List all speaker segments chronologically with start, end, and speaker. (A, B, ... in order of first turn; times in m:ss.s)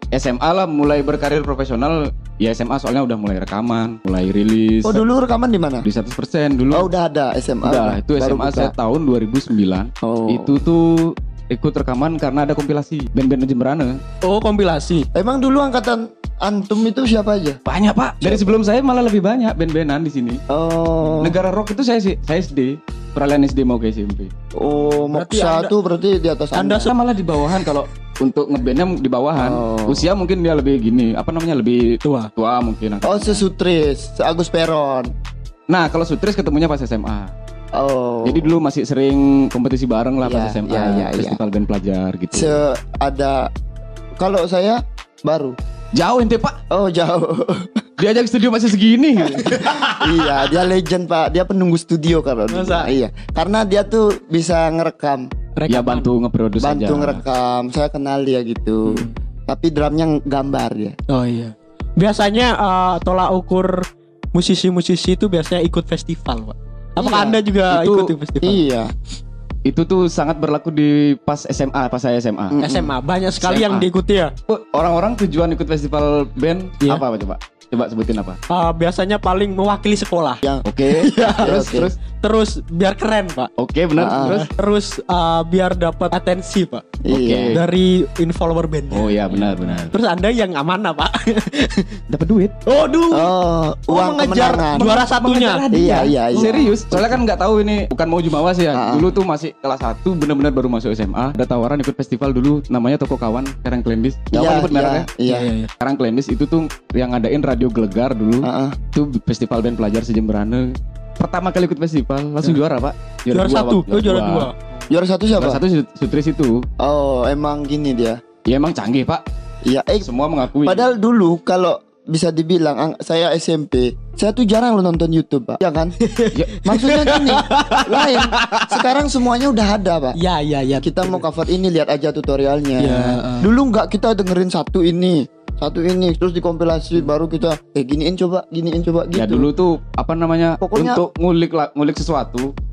0:00.1-0:05.0 A
0:04.8-0:05.8 B
0:05.8-0:06.9 A
0:06.7-0:08.7 B
0:07.6-0:14.0 A
0:10.0-0:10.6 B
0:14.2-0:15.1 C
0:15.1-0:17.6 B
0:17.6-0:20.4 A
0:18.2-0:18.5 B
0:20.5-0:21.4 B
0:21.0-0:24.3 A
0:24.6-0:26.9 B
0:25.0-0:25.7 C
0:26.5-0:33.4 A
0:29.4-0:30.1 B
0:32.0-0:32.3 C
0:33.0-0:35.1 B
0:35.7-0:37.3 A
0:37.7-0:38.5 B
0:38.2-0:42.6 A
0:40.2-0:41.4 B
0:42.3-0:43.5 B
0:44.2-0:45.6 B
0:45.9-0:46.6 A
0:46.7-0:47.7 B
0:48.0-0:50.2 A
0:49.4-0:55.3 B
0:52.5-0:52.9 C
0:55.6-0:56.1 C
0:55.7-0:57.2 A
0:56.6-1:01.0 B
0:58.8-0:59.1 C
1:01.1-1:08.6 C
1:07.0-1:07.4 B
1:07.7-1:08.1 A
1:08.4-1:08.9 B
1:09.6-1:12.6 A
1:12.5-1:12.9 B
1:12.6-1:14.3 C
1:13.4-1:13.9 A
1:14.5-1:18.4 A
1:18.5-1:20.4 C
1:20.6-1:21.9 A
1:21.0-1:23.5 C
1:21.2-1:21.9 B
1:23.6-1:24.5 A
1:24.0-1:24.4 B
1:24.2-1:27.0 C
1:27.0-1:27.6 B
1:27.1-1:27.6 A
1:27.5-1:31.9 C
1:28.9-1:29.9 A
1:32.1-1:32.6 A
1:32.6-1:33.3 C
1:33.1-1:35.0 B
1:33.9-1:35.6 C
1:34.7-1:45.1 A
1:35.7-1:37.1 B
1:38.7-1:39.1 B
1:44.3-1:45.5 B
1:45.2-1:45.7 C
1:45.8-1:54.5 A
1:48.4-1:48.8 B
1:53.3-1:54.8 C
1:54.9-1:55.6 B
1:55.4-1:56.6 A
1:56.8-1:58.2 B
1:58.4-1:59.2 A
1:59.6-2:00.1 B
2:00.0-2:00.9 A
2:00.6-2:06.0 B
2:06.0-2:08.3 C
2:06.3-2:06.6 A
2:06.6-2:10.2 B
2:10.2-2:11.2 C
2:10.8-2:19.5 B
2:12.8-2:13.5 C
2:19.1-2:22.5 A
2:20.6-2:21.0 B